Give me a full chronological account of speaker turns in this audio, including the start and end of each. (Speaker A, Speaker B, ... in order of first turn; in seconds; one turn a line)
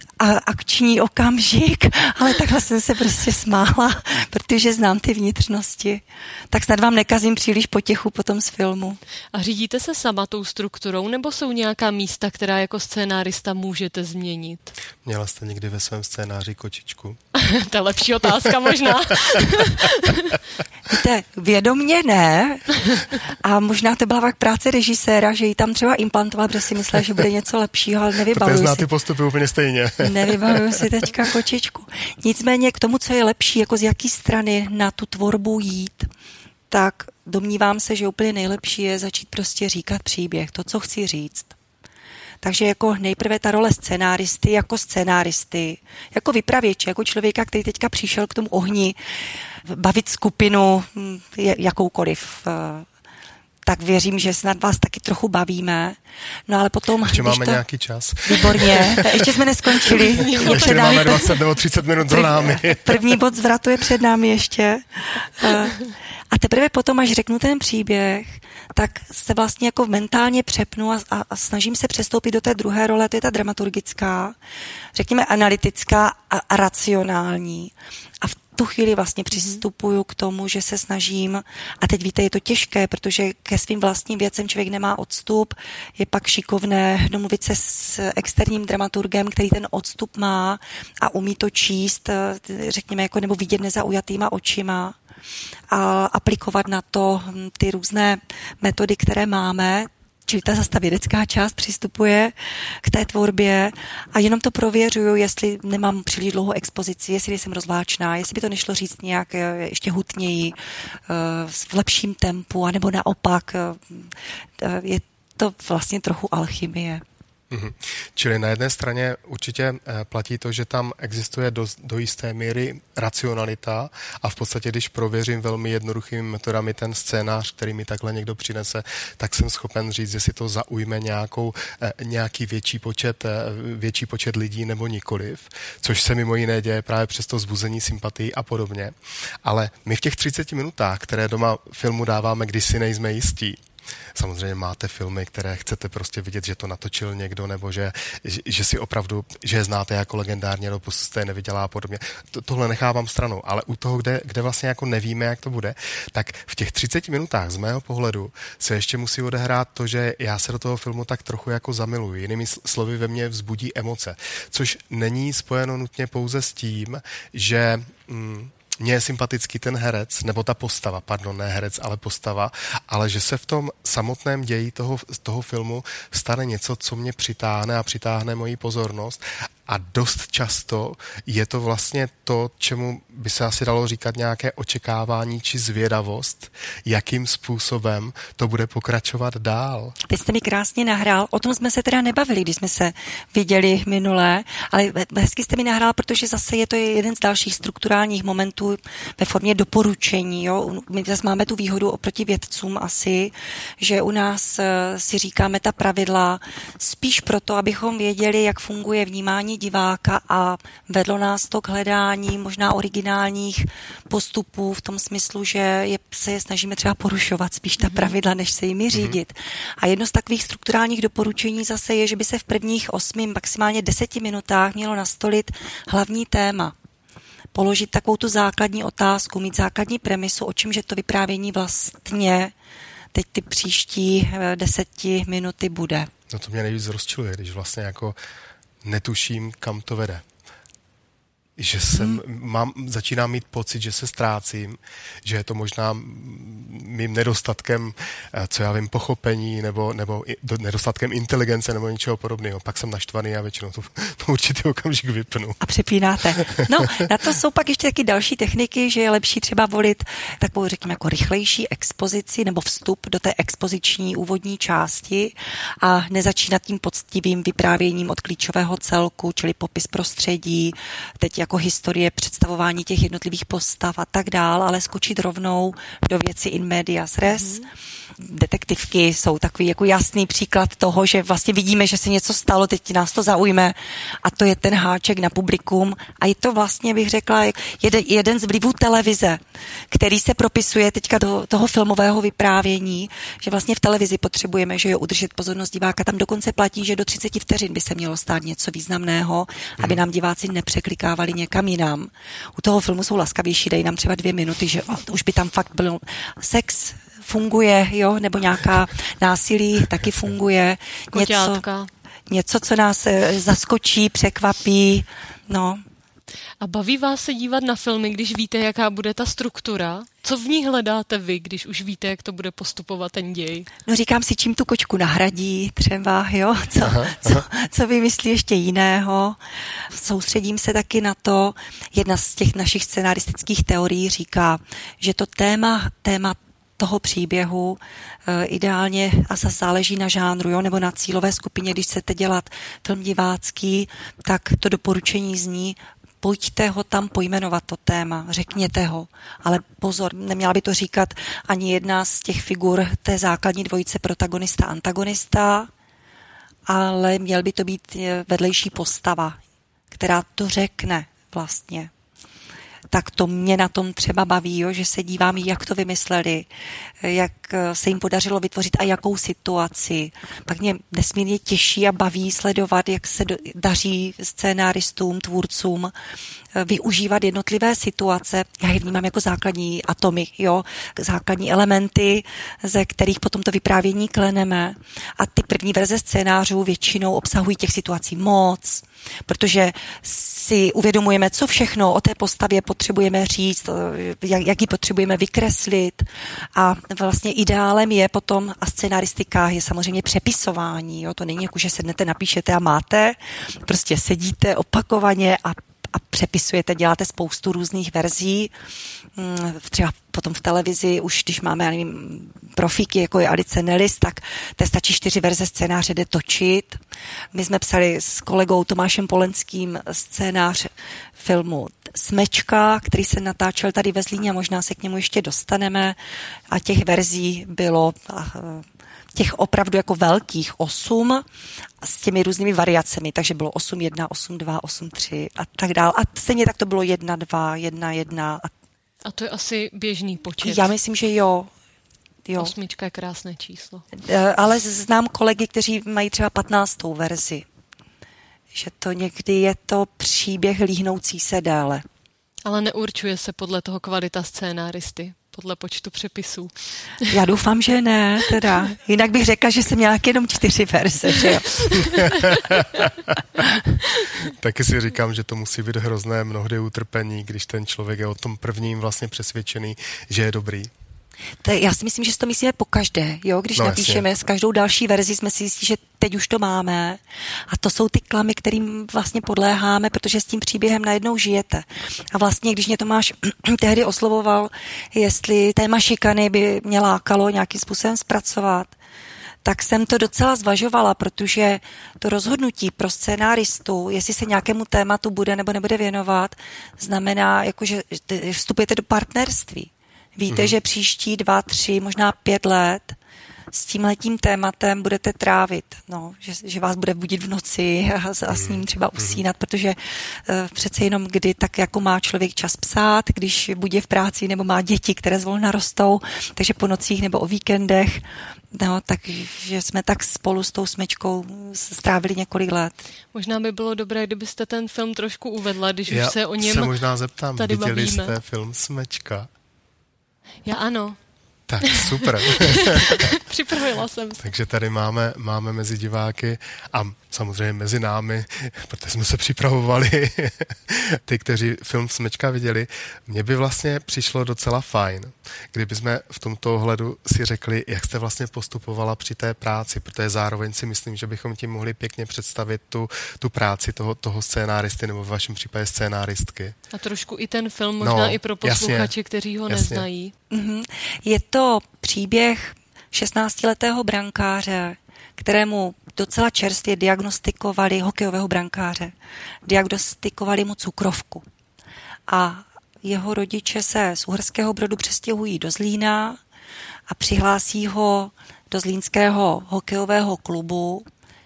Speaker A: 0.2-9.0
Speaker B: 9.3-14.7
Speaker C: 15.0-17.2
Speaker B: 17.4-20.4
Speaker A: 20.9-28.9
Speaker C: 28.3-30.8
Speaker A: 30.0-36.1
Speaker A: 36.7-41.5
Speaker A: 42.4-49.0
Speaker A: 49.5-52.9
Speaker A: 53.7-57.6
Speaker C: 57.0-63.2
Speaker A: 58.3-61.3
Speaker B: 59.9-61.4
Speaker A: 62.1-74.4
Speaker A: 75.0-95.0
Speaker B: 79.4-79.6
Speaker A: 95.7-110.6
Speaker A: 111.1-117.0
Speaker C: 117.5-143.6
Speaker C: 144.2-190.0
Speaker A: 190.1-226.7
Speaker B: 217.8-218.1
Speaker A: 227.5-232.5
Speaker A: 233.1-236.1
Speaker C: 236.3-238.2
Speaker C: 238.8-240.2
Speaker C: 241.6-255.6
Speaker A: 255.6-277.6
Speaker B: 277.2-277.7
Speaker A: 278.2-311.6
Speaker B: 311.1-311.9
Speaker A: 312.3-315.8
Speaker B: 316.6-323.7
Speaker A: 323.9-355.7
Speaker C: 326.8-327.4
Speaker A: 356.7-359.4
Speaker A: 359.9-361.9
Speaker A: 362.9-366.5
Speaker A: 367.0-375.9
Speaker A: 376.6-408.5
Speaker A: 409.2-416.8
Speaker A: 417.3-426.0
Speaker A: 426.5-431.2
Speaker A: 431.8-438.5
Speaker B: 439.1-440.7
Speaker A: 440.4-441.5
Speaker A: 442.3-442.5
Speaker B: 442.4-443.9
Speaker A: 443.9-447.5
Speaker A: 448.5-451.8
Speaker B: 452.4-456.5
Speaker A: 457.1-462.0
Speaker C: 464.2-470.7
Speaker A: 471.4-488.7
Speaker C: 473.6-474.1
Speaker A: 489.4-503.0
Speaker C: 500.3-500.6
Speaker A: 503.5-522.8
Speaker C: 508.3-509.2
Speaker B: 523.1-526.8
Speaker C: 525.9-529.3
Speaker B: 527.4-528.1
Speaker B: 530.5-531.0
Speaker C: 531.5-533.1
Speaker B: 531.6-534.3
Speaker C: 534.2-556.6
Speaker B: 556.7-560.1
Speaker C: 557.8-558.9
Speaker C: 559.5-559.9
Speaker A: 560.3-568.9
Speaker A: 569.5-571.2
Speaker A: 572.1-576.2
Speaker A: 576.9-580.9